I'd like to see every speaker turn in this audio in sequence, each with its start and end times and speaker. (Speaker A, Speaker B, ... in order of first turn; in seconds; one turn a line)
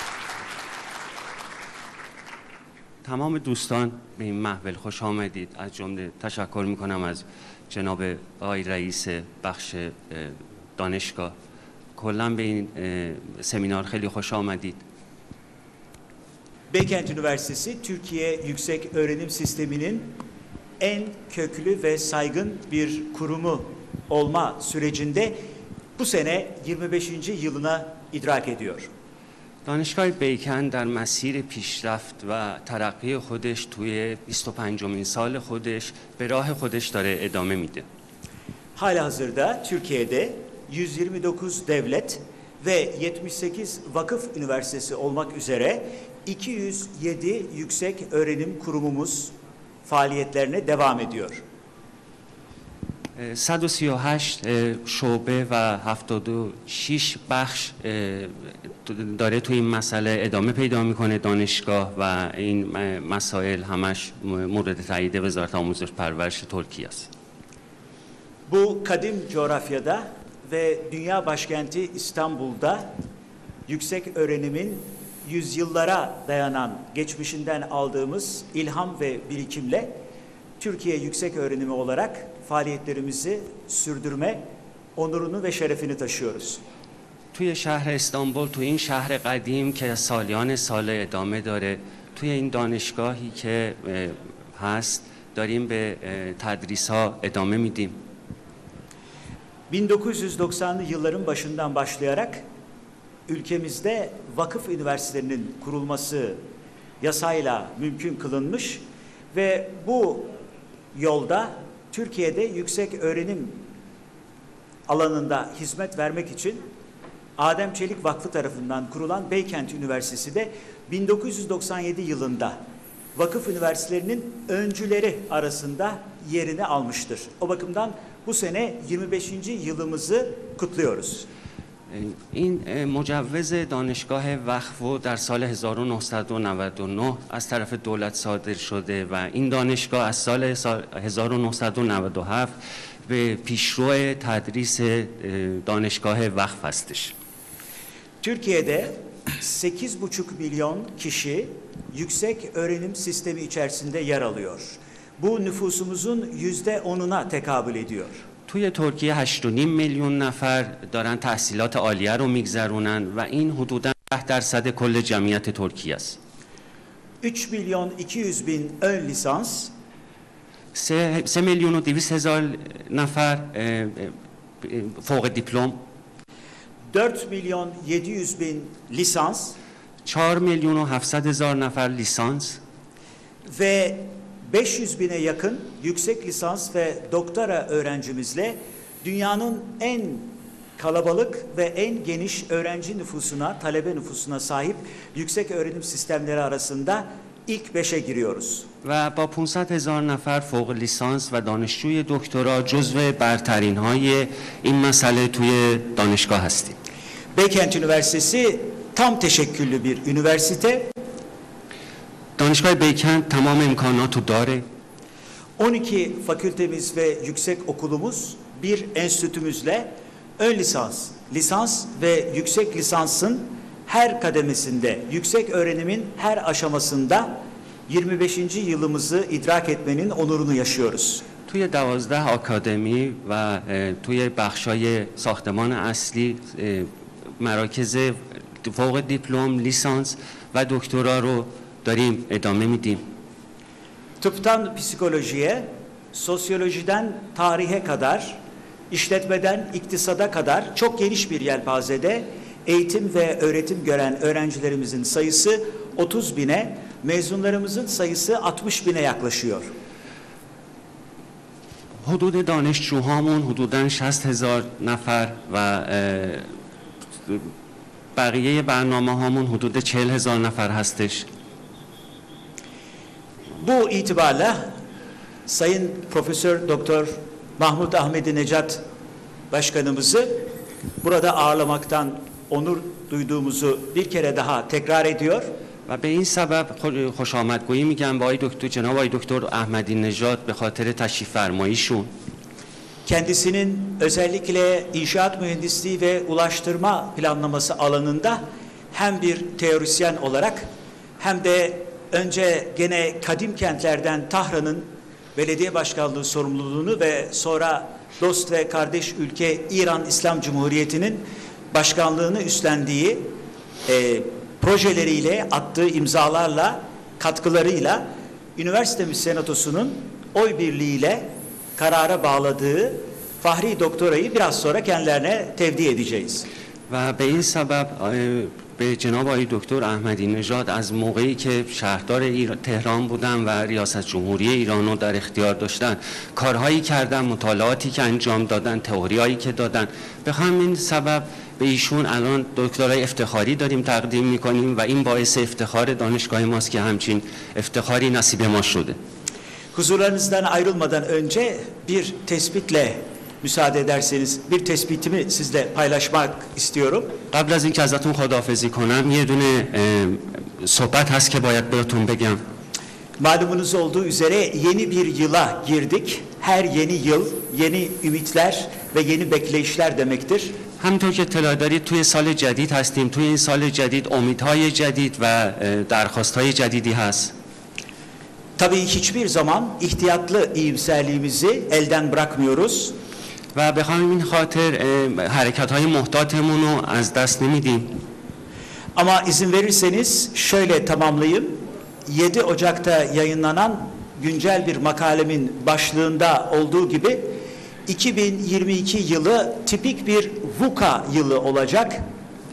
Speaker A: 3.0-11.3
Speaker A: 11.9-14.8
Speaker B: 16.7-20.2
Speaker B: 20.8-25.4
Speaker B: 26.0-28.9
Speaker A: 29.6-37.9
Speaker B: 38.8-51.4
Speaker A: 53.2-67.1
Speaker B: 68.5-73.0
Speaker B: 73.7-80.0
Speaker B: 80.6-86.6
Speaker A: 87.3-98.0
Speaker B: 99.7-102.4
Speaker B: 103.3-106.4
Speaker B: 107.0-110.3
Speaker B: 110.9-113.7
Speaker B: 114.9-116.7
Speaker B: 117.4-122.6
Speaker B: 123.1-131.3
Speaker A: 131.9-147.1
Speaker B: 148.2-158.2
Speaker A: 158.5-166.2
Speaker B: 167.2-169.7
Speaker A: 170.7-175.8
Speaker B: 176.9-179.6
Speaker A: 180.0-182.6
Speaker B: 183.4-198.7
Speaker A: 198.8-206.8
Speaker B: 207.3-210.9
Speaker A: 212.4-214.6
Speaker B: 215.6-231.2
Speaker A: 231.5-243.1
Speaker B: 244.2-259.7
Speaker A: 262.0-266.5
Speaker A: 268.1-271.3
Speaker B: 273.6-274.7
Speaker B: 275.5-278.8
Speaker B: 279.5-280.5
Speaker B: 281.0-285.5
Speaker A: 285.9-292.1
Speaker B: 293.0-313.3
Speaker B: 313.9-326.4
Speaker A: 326.9-349.0
Speaker B: 349.7-357.2
Speaker A: 357.3-362.4
Speaker B: 363.2-370.6
Speaker A: 370.8-377.3
Speaker B: 378.6-382.9
Speaker A: 383.5-388.0
Speaker B: 388.9-402.0